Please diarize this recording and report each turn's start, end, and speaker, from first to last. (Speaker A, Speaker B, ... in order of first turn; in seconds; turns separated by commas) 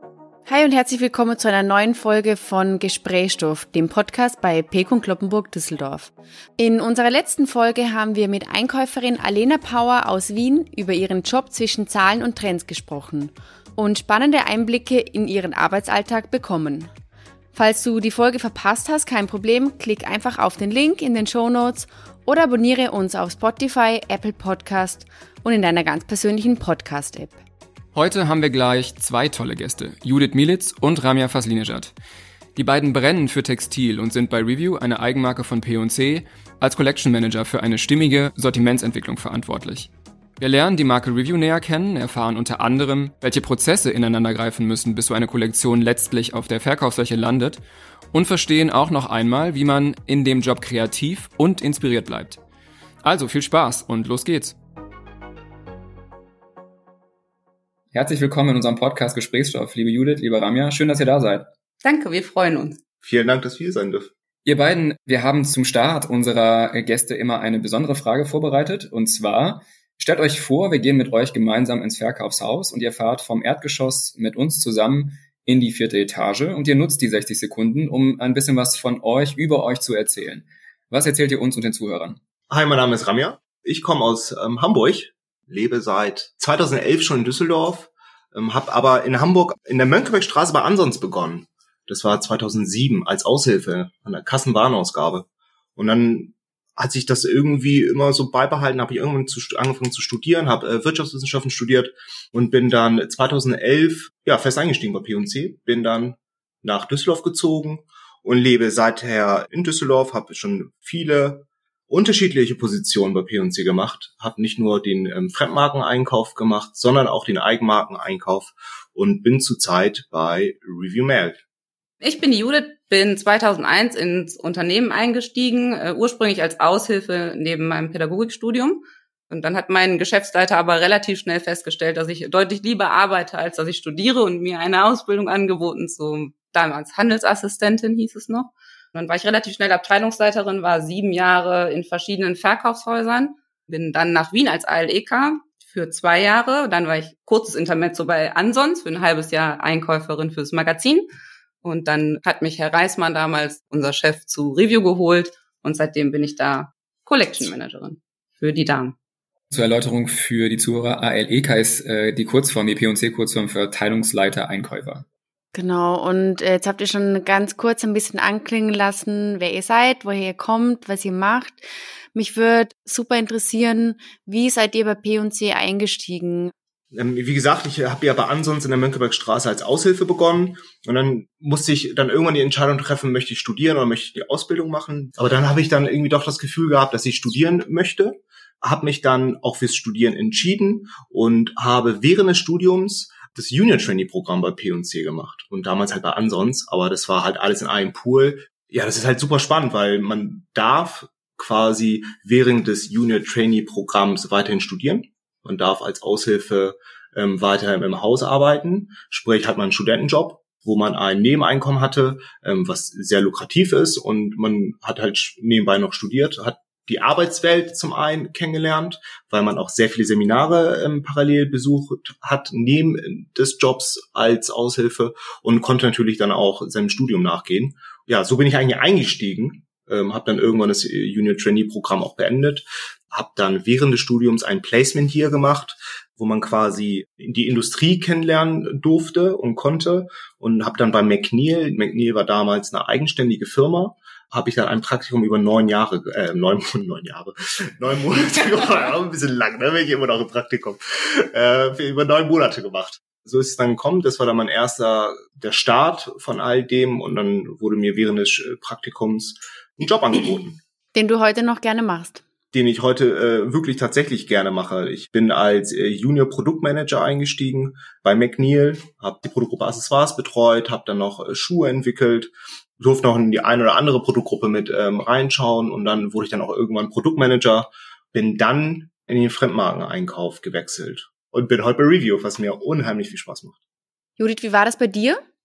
Speaker A: 0.5-16.9, Speaker A: 17.5-27.4, Speaker B: 27.9-31.9, Speaker B: 32.5-52.4, Speaker B: 53.0-54.6, Speaker B: 57.9-61.5, Speaker C: 61.8-62.8, Speaker D: 63.0-64.1, Speaker B: 64.4-82.2, Speaker D: 82.5-121.4, Speaker C: 122.0-151.1, Speaker C: 151.6-158.9, Speaker B: 159.5-165.0, Speaker A: 165.5-176.5, Speaker D: 176.9-260.6, Speaker A: 260.9-262.2, Speaker D: 262.5-283.6, Speaker A: 284.2-285.2